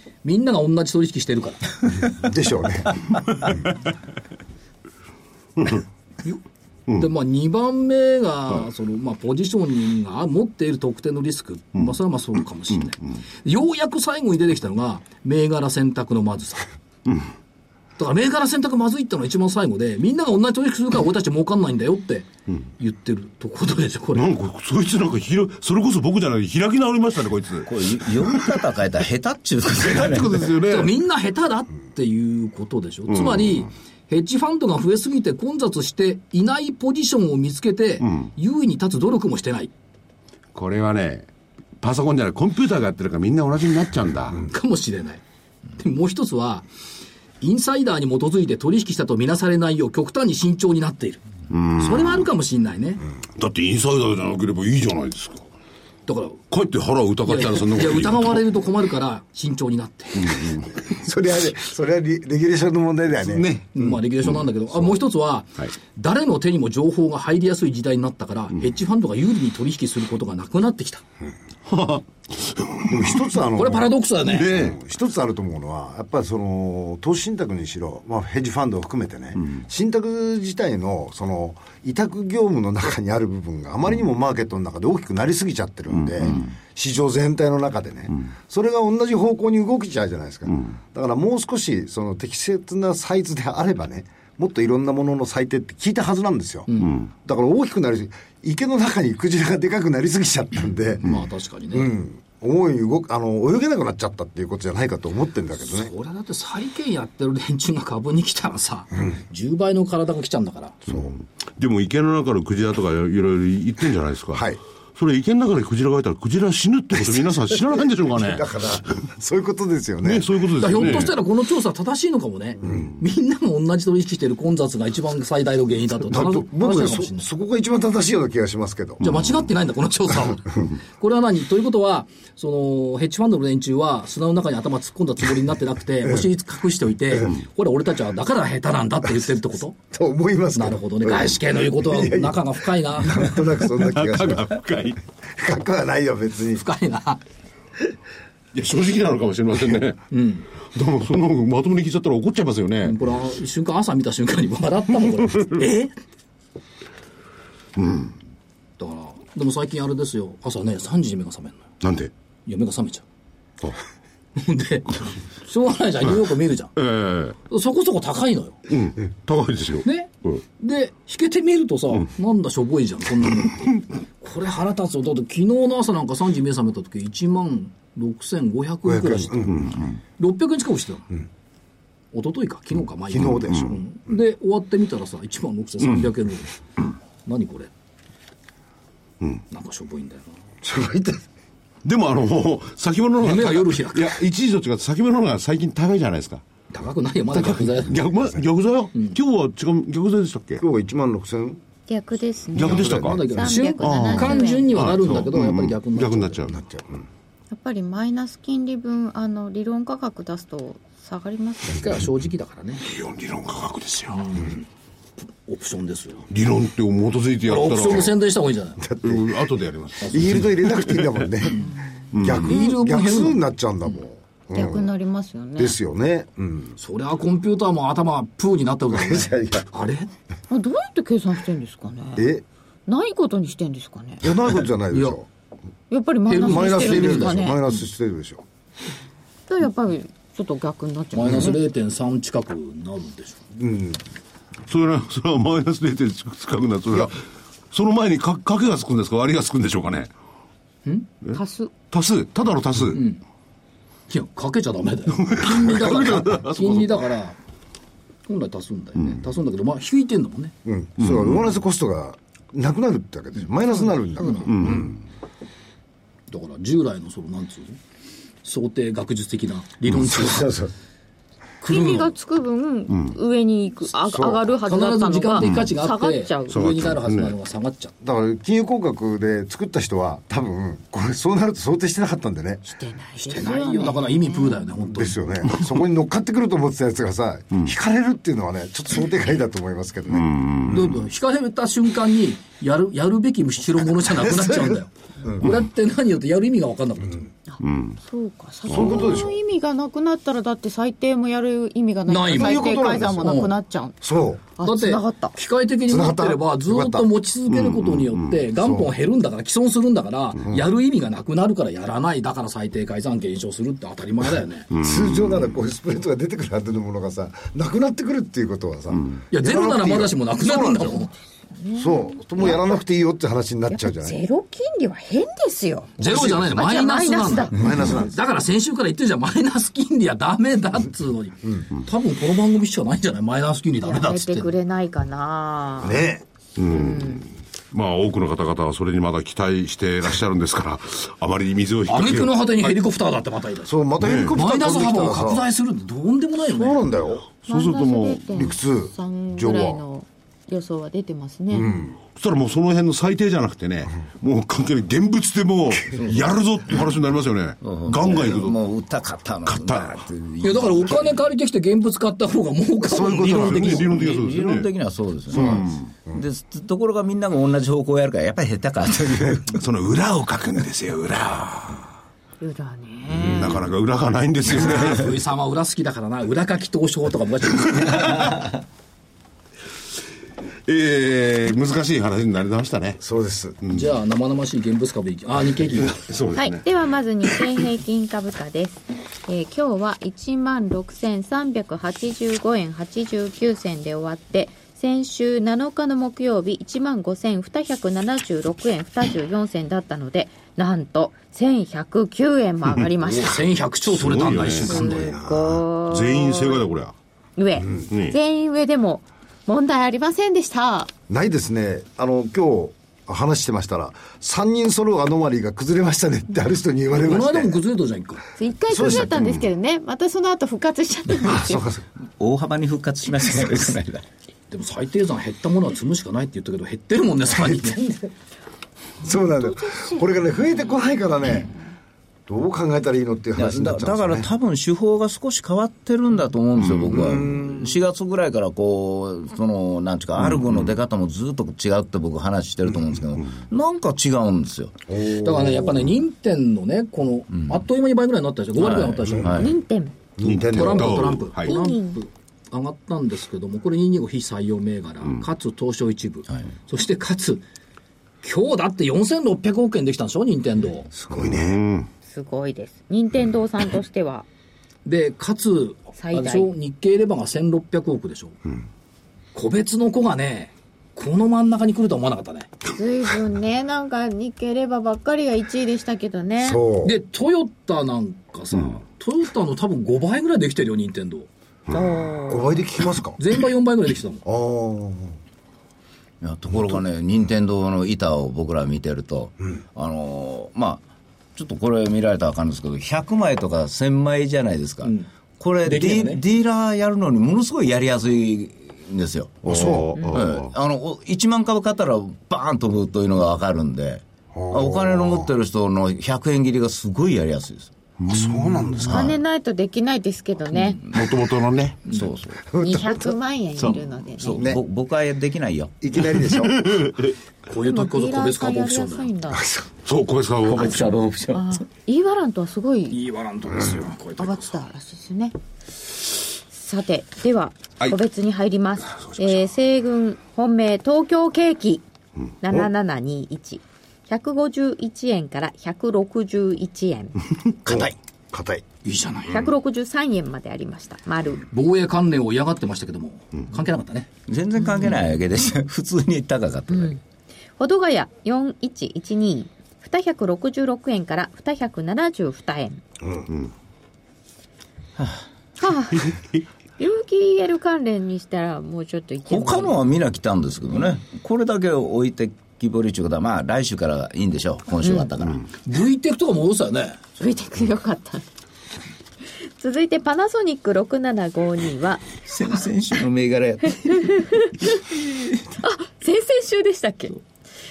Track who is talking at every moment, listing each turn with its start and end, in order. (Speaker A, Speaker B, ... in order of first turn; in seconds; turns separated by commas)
Speaker A: 0.2-2.0, Speaker B: 2.0-3.0, Speaker A: 7.0-16.7, Speaker A: 18.0-24.3, Speaker C: 24.1-28.4, Speaker D: 27.7-30.4, Speaker C: 29.8-30.9, Speaker A: 30.6-39.7, Speaker C: 33.1-33.6, Speaker C: 38.0-38.3, Speaker C: 40.5-41.3, Speaker C: 41.8-44.4, Speaker A: 44.4-45.2, Speaker A: 45.8-46.7, Speaker A: 47.4-51.2, Speaker C: 51.5-52.2, Speaker A: 51.8-53.0, Speaker C: 53.4-55.5, Speaker A: 56.1-56.4, Speaker C: 56.5-58.4, Speaker A: 57.2-60.5, Speaker C: 60.2-60.8, Speaker B: 60.9-63.5, Speaker C: 63.2-64.3, Speaker A: 63.8-71.0, Speaker C: 71.7-73.1, Speaker B: 72.9-73.9, Speaker A: 73.5-74.6, Speaker C: 74.3-74.8, Speaker B: 74.5-101.2, Speaker A: 96.7-97.0, Speaker A: 101.0-101.9, Speaker B: 101.7-105.9, Speaker A: 105.6-110.8, Speaker C: 110.9-118.6, Speaker B: 114.3-114.6, Speaker B: 117.5-120.3, Speaker C: 120.0-121.1, Speaker A: 120.6-127.3, Speaker B: 126.1-129.1, Speaker A: 129.0-139.8, Speaker B: 139.9-144.6, Speaker A: 140.6-143.3, Speaker C: 143.8-145.0, Speaker B: 145.3-146.7, Speaker A: 146.6-147.2, Speaker C: 148.5-150.0, Speaker A: 150.1-150.5, Speaker C: 150.7-153.0, Speaker A: 152.8-155.9, Speaker C: 157.8-158.2, Speaker A: 158.8-161.7, Speaker C: 161.8-162.1, Speaker A: 162.5-163.1, Speaker A: 164.4-166.7, Speaker C: 166.8-167.4, Speaker A: 167.5-168.6, Speaker C: 168.7-170.4, Speaker A: 169.8-181.1, Speaker B: 178.8-179.7, Speaker C: 179.5-179.8, Speaker A: 182.1-186.6, Speaker B: 183.1-183.8, Speaker A: 187.2-187.7, Speaker A: 189.5-190.4, Speaker B: 190.6-191.2, Speaker C: 191.8-196.4, Speaker A: 193.2-194.2, Speaker A: 196.7-198.1, Speaker C: 197.3-200.6, Speaker B: 200.6-201.6, Speaker E: 201.9-204.9, Speaker C: 202.6-206.6, Speaker A: 202.6-206.4, Speaker B: 202.6-203.2, Speaker B: 206.5-207.1, Speaker E: 207.5-212.0, Speaker A: 211.8-212.9, Speaker C: 212.9-214.3, Speaker A: 214.1-214.7, Speaker A: 215.2-216.3, Speaker C: 216.3-218.1, Speaker A: 217.5-218.9, Speaker B: 218.8-219.3, Speaker C: 219.0-221.1, Speaker B: 220.1-224.9, Speaker C: 222.1-222.6, Speaker A: 222.3-223.4, Speaker E: 224.5-225.8, Speaker B: 225.6-226.8, Speaker A: 226.8-230.1, Speaker B: 228.9-229.7, Speaker E: 230.5-232.3, Speaker B: 232.2-232.4, Speaker E: 232.9-234.2, Speaker B: 234.2-235.3, Speaker A: 234.9-235.2, Speaker E: 235.9-237.6, Speaker A: 236.3-237.6, Speaker B: 236.4-238.4, Speaker E: 239.5-241.6, Speaker A: 241.1-243.4, Speaker B: 243.6-244.0, Speaker C: 244.7-250.1, Speaker A: 250.8-251.1, Speaker E: 251.3-251.7, Speaker C: 251.9-253.0, Speaker A: 252.9-253.2, Speaker A: 254.1-257.4, Speaker C: 255.1-257.0, Speaker A: 258.3-260.6, Speaker B: 260.6-264.9, Speaker C: 261.0-261.5, Speaker A: 263.8-264.7, Speaker C: 264.5-264.9, Speaker A: 266.3-267.8, Speaker A: 268.4-270.6, Speaker B: 270.0-270.7, Speaker E: 271.6-276.6, Speaker A: 271.7-272.1, Speaker C: 272.9-273.2, Speaker B: 274.1-274.5, Speaker A: 274.6-277.9, Speaker C: 275.4-275.7, Speaker C: 276.5-277.4, Speaker B: 278.0-282.6, Speaker E: 282.7-284.7, Speaker A: 283.3-285.3, Speaker B: 284.8-290.9, Speaker C: 290.1-290.9, Speaker A: 290.7-297.3, Speaker B: 294.1-295.5, Speaker E: 297.5-304.0, Speaker C: 297.6-298.0, Speaker B: 298.7-299.4, Speaker C: 298.7-299.1, Speaker A: 302.1-303.6, Speaker B: 302.3-303.5, Speaker B: 304.0-304.4, Speaker E: 304.6-305.4, Speaker A: 304.6-314.7, Speaker B: 305.9-307.1, Speaker C: 307.6-308.1, Speaker B: 308.6-308.9, Speaker C: 314.7-315.4, Speaker B: 314.8-321.1, Speaker A: 319.3-321.1, Speaker E: 321.6-322.7, Speaker B: 321.8-324.2, Speaker E: 323.7-327.6, Speaker B: 326.0-326.5, Speaker A: 326.0-334.5, Speaker B: 327.5-328.2, Speaker E: 333.8-336.1, Speaker B: 335.8-336.2, Speaker C: 336.6-342.7, Speaker E: 336.6-337.2, Speaker A: 341.9-343.8, Speaker B: 343.7-345.5, Speaker C: 344.0-344.4, Speaker A: 344.3-346.8, Speaker B: 346.4-347.3, Speaker C: 347.4-348.4, Speaker E: 347.5-351.7, Speaker B: 348.3-349.8, Speaker B: 351.5-352.0, Speaker C: 352.1-358.6, Speaker D: 356.0-356.3, Speaker D: 357.6-361.2, Speaker C: 359.5-360.1, Speaker A: 360.4-363.9, Speaker B: 362.8-363.9, Speaker C: 363.3-364.7, Speaker D: 363.8-369.6, Speaker B: 365.3-366.2, Speaker C: 365.3-365.9, Speaker C: 369.5-371.8, Speaker E: 372.4-373.6, Speaker C: 373.2-375.1, Speaker B: 373.2-373.5, Speaker A: 374.5-378.5, Speaker C: 380.7-383.0, Speaker B: 383.0-383.6, Speaker C: 383.6-383.9, Speaker A: 383.7-386.0, Speaker C: 385.8-386.7, Speaker E: 386.4-403.4, Speaker A: 403.1-405.1, Speaker C: 403.9-405.2, Speaker E: 404.6-406.6, Speaker B: 405.1-405.6, Speaker C: 405.9-406.9, Speaker E: 407.4-410.9, Speaker C: 407.9-408.2, Speaker B: 411.1-417.6, Speaker A: 417.0-418.3, Speaker E: 418.4-421.6, Speaker B: 418.7-419.4, Speaker B: 421.2-421.9, Speaker D: 422.2-424.1, Speaker A: 424.5-427.8, Speaker B: 427.4-428.0, Speaker B: 429.0-431.5, Speaker E: 429.0-430.9, Speaker B: 432.3-434.3, Speaker D: 433.4-444.8, Speaker B: 436.9-437.8, Speaker B: 444.9-445.9, Speaker A: 445.1-449.4, Speaker D: 447.4-447.6, Speaker D: 448.6-449.5, Speaker B: 449.1-449.5, Speaker E: 449.3-449.9, Speaker B: 450.2-451.2, Speaker C: 450.2-451.6, Speaker A: 450.5-457.4, Speaker E: 451.4-452.0, Speaker A: 458.2-460.9, Speaker B: 460.9-461.6, Speaker C: 461.2-461.9, Speaker E: 462.1-464.3, Speaker A: 464.9-468.4, Speaker E: 466.0-466.5, Speaker A: 469.4-472.5, Speaker E: 472.7-476.6, Speaker B: 476.4-476.9, Speaker A: 476.8-481.3, Speaker E: 481.7-482.6, Speaker B: 482.3-483.2, Speaker A: 483.2-484.2, Speaker B: 484.2-485.2, Speaker D: 486.2-490.8, Speaker D: 491.4-507.7, Speaker A: 494.8-495.1, Speaker A: 495.6-496.2, Speaker B: 499.5-500.2, Speaker C: 499.5-500.5, Speaker B: 504.3-505.3, Speaker C: 508.0-509.1, Speaker B: 508.1-509.1, Speaker E: 508.9-510.8, Speaker D: 510.8-511.1, Speaker C: 510.9-511.9, Speaker D: 511.9-512.4, Speaker B: 512.5-513.1, Speaker E: 512.6-514.5, Speaker D: 514.2-515.8, Speaker B: 514.3-514.6, Speaker B: 515.8-516.7, Speaker C: 516.4-517.1, Speaker A: 517.5-519.1, Speaker E: 517.6-519.5, Speaker B: 519.3-519.7, Speaker C: 519.9-521.0, Speaker D: 520.5-521.5, Speaker E: 521.3-523.0, Speaker A: 522.9-524.6, Speaker E: 524.2-525.4, Speaker E: 526.5-531.8, Speaker C: 529.0-529.4, Speaker E: 532.4-537.2, Speaker B: 537.7-538.6, Speaker A: 538.8-539.5, Speaker E: 539.3-541.5, Speaker A: 541.5-544.1, Speaker D: 544.3-547.0, Speaker E: 546.7-547.0, Speaker E: 547.6-552.8, Speaker D: 555.0-555.3, Speaker E: 555.6-556.1, Speaker E: 556.8-559.8, Speaker D: 559.3-565.5, Speaker E: 564.8-565.1, Speaker A: 565.6-567.1, Speaker E: 567.2-568.2, Speaker E: 569.6-572.1, Speaker D: 572.3-575.5, Speaker E: 573.9-574.6, Speaker E: 575.6-577.2